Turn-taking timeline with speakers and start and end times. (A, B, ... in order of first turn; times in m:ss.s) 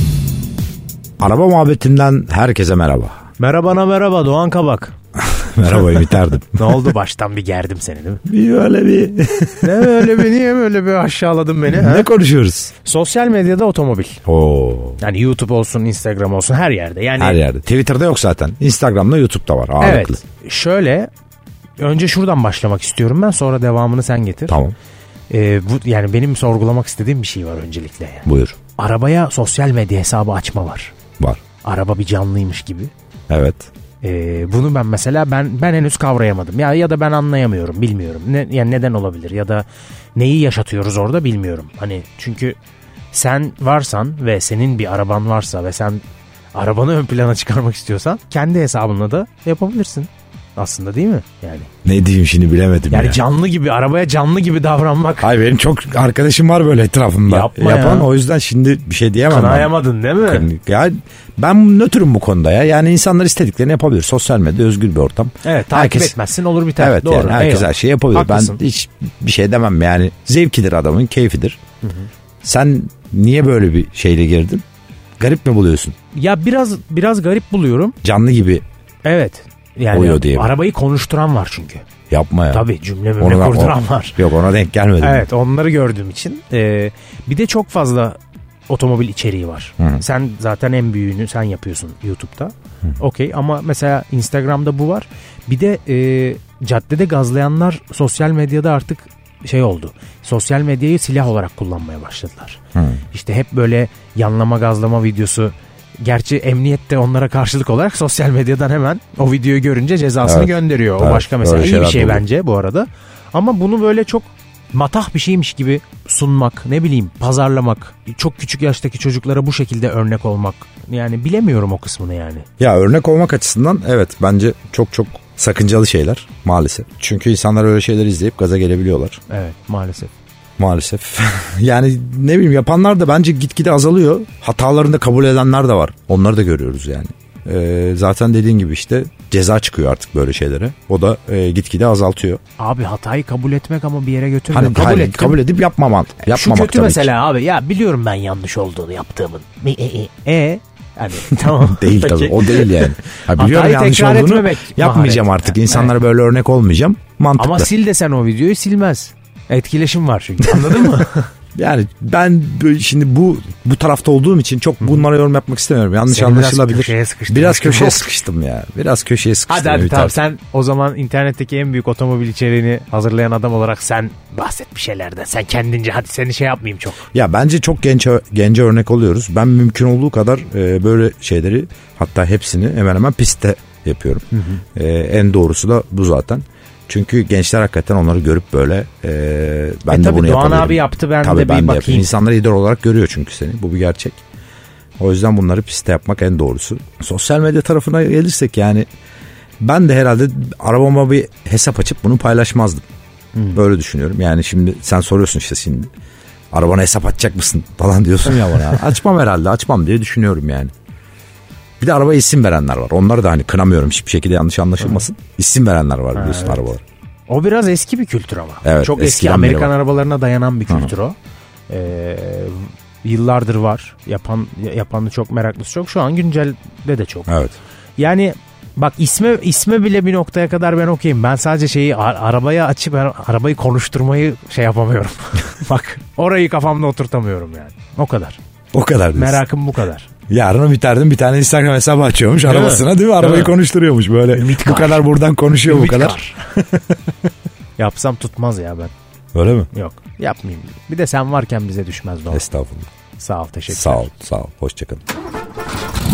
0:01.2-0:03.2 A
0:03.4-0:04.9 B
0:05.2-0:06.9 A
0:05.7-0:08.2 B
0:08.2-0:10.2 A
0:09.6-0:12.1 B
0:11.7-0:12.7 A
0:12.8-0:14.2 B
0:14.2-0:15.0 A
0:15.0-0:17.4 B
0:17.2-0:20.2 A
0:19.8-0:21.1 B
0:21.8-0:24.6 B
0:24.5-0:24.7 A
0:25.3-0:30.9 B
0:28.2-0:28.6 A
0:31.6-0:32.9 B
0:33.3-0:33.7 A
0:34.0-0:39.6 B
0:40.2-0:42.6 B
0:43.1-0:46.0 B
0:46.5-0:51.7 B
0:51.8-0:53.2 A
0:52.9-0:55.3 B
0:55.2-1:06.1 A
0:57.3-0:58.1 B
0:59.3-1:00.5 B
1:05.4-1:08.6 B
1:06.8-1:11.6 A
1:11.8-1:12.1 B
1:12.4-1:14.6 A
1:15.2-1:15.9 A
1:16.1-1:18.0 B
1:18.0-1:18.6 A
1:19.0-1:21.8 B
1:19.9-1:20.5 A
1:22.1-1:22.6 A
1:22.5-1:24.2 B
1:23.2-1:25.2 A
1:25.0-1:42.6 B
1:29.8-1:30.0 A
1:42.7-1:43.0 A
1:43.1-2:02.4 B
1:50.2-1:52.2 A
2:02.6-2:09.2 A
2:09.3-2:10.1 B
2:10.6-2:22.4 A
2:22.6-2:25.4 B
2:24.5-2:27.1 A
2:26.3-2:35.9 B
2:31.4-2:37.7 A
2:37.4-2:41.3 B
2:40.4-2:41.0 A
2:41.5-2:50.2 A
2:46.1-2:48.1 B
2:49.5-2:57.0 B
2:57.1-3:14.2 A
3:04.3-3:04.6 B
3:09.9-3:12.1 B
3:15.0-3:18.9 A
3:19.6-3:22.8 A
3:23.3-3:23.6 B
3:23.5-3:25.9 A
3:26.5-3:30.7 A
3:31.8-3:36.8 A
3:36.1-3:36.6 B
3:37.3-3:41.2 B
3:38.6-3:39.7 A
3:40.7-3:40.9 A
3:41.7-3:47.4 B
3:47.3-3:47.6 A
3:48.0-3:58.4 B
3:58.7-3:59.4 A
3:59.1-4:00.1 B
4:00.3-4:06.2 A
4:02.4-4:03.5 B
4:04.3-4:05.1 B
4:05.6-4:06.4 B
4:07.8-4:08.9 B
4:09.3-4:09.7 A
4:09.7-4:12.4 B
4:12.3-4:12.9 A
4:13.2-4:14.1 B
4:13.7-4:15.0 A